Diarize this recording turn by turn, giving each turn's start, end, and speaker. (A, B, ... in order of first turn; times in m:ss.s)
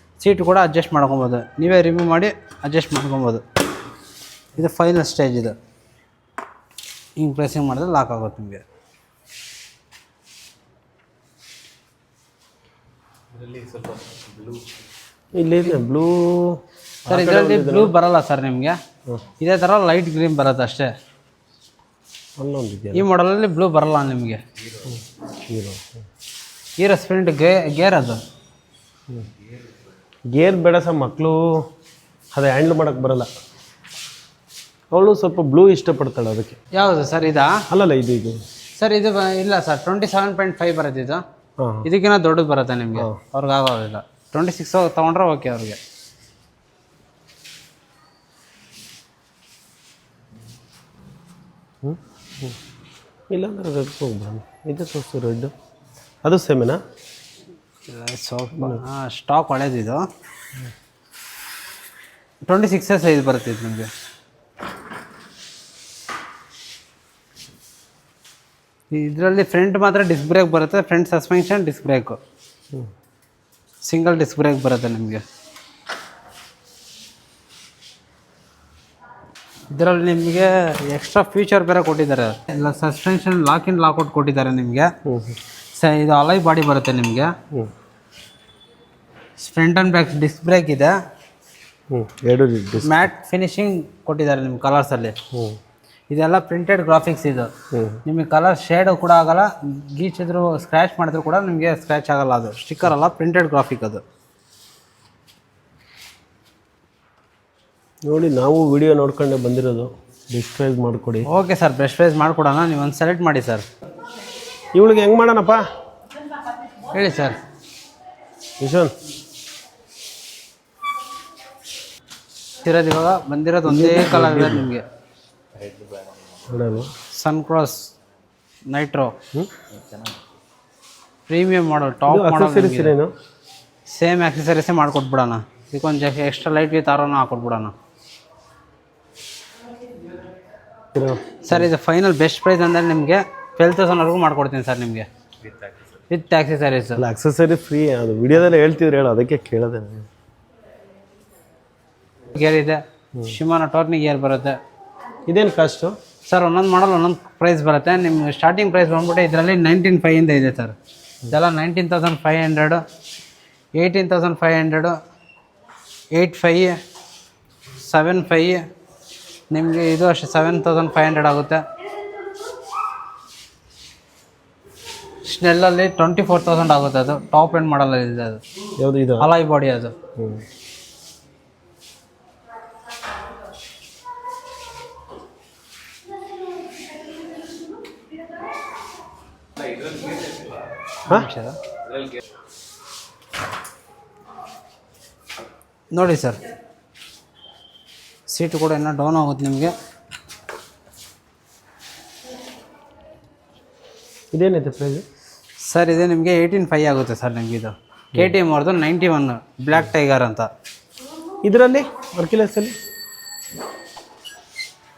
0:00.2-0:03.4 A
0:04.6-0:05.6 A
0:07.2-0:08.6 A
0:13.3-0:14.6 B
0:15.4-0:17.9 C
0:17.1-0:18.8 A
0:19.4-0:20.9 A
0:22.4-0:23.1 C
0:22.9-0:24.4 A
0:25.5-0:26.0 C
0:26.8-0:28.2 A
0:30.3-0:31.6 C
0:32.3-0:33.3 C
0:34.9-0:36.6 C
0:36.7-0:37.6 A
0:37.7-0:38.4 C
0:38.8-0:41.2 A
0:41.6-0:41.9 C
0:41.8-0:45.8 A
0:51.8-0:52.5 C
0:53.3-0:55.5 C
0:56.2-0:56.8 C
0:57.9-1:00.1 A
0:58.6-0:58.8 C
1:02.4-1:03.9 A
1:08.9-1:12.2 A
1:13.8-1:15.2 A
1:19.7-1:24.9 A
1:25.0-1:25.4 C
1:25.7-1:27.3 A
1:29.4-1:30.9 A
1:31.9-1:33.0 C
1:32.8-1:35.2 A
1:36.1-1:37.5 A
1:37.7-1:38.0 C
1:38.0-1:44.0 A
1:48.1-1:51.3 C
1:51.2-1:53.6 A
1:54.7-1:55.6 C
1:56.9-1:57.4 A
1:58.6-1:58.9 C
2:02.6-2:04.8 A
2:03.6-2:04.7 C
2:05.5-2:06.4 B
2:06.5-2:06.9 C
2:07.1-2:07.9 A
2:08.7-2:09.1 A
2:09.7-2:10.2 B
2:11.3-2:12.9 A
2:12.1-2:13.1 C
2:13.9-2:17.7 A
2:20.9-2:21.7 C
2:21.5-2:25.1 A
2:25.4-2:26.0 B
2:26.1-2:27.0 A
2:27.0-2:30.1 C
2:32.3-2:34.6 A
2:35.3-2:35.9 C
2:36.3-2:40.7 A
2:41.3-2:42.8 A
2:43.8-2:45.0 A
2:46.1-2:46.7 A
2:47.8-2:48.6 A
2:49.5-2:51.6 A
2:55.2-2:58.4 A
2:58.8-2:59.3 C
2:59.2-2:59.9 A
3:09.6-3:10.5 B
3:11.0-3:11.6 A
3:15.9-3:16.4 A
3:18.3-3:19.7 A
3:24.3-3:25.0 C
3:25.6-3:30.5 A
3:31.4-3:32.7 C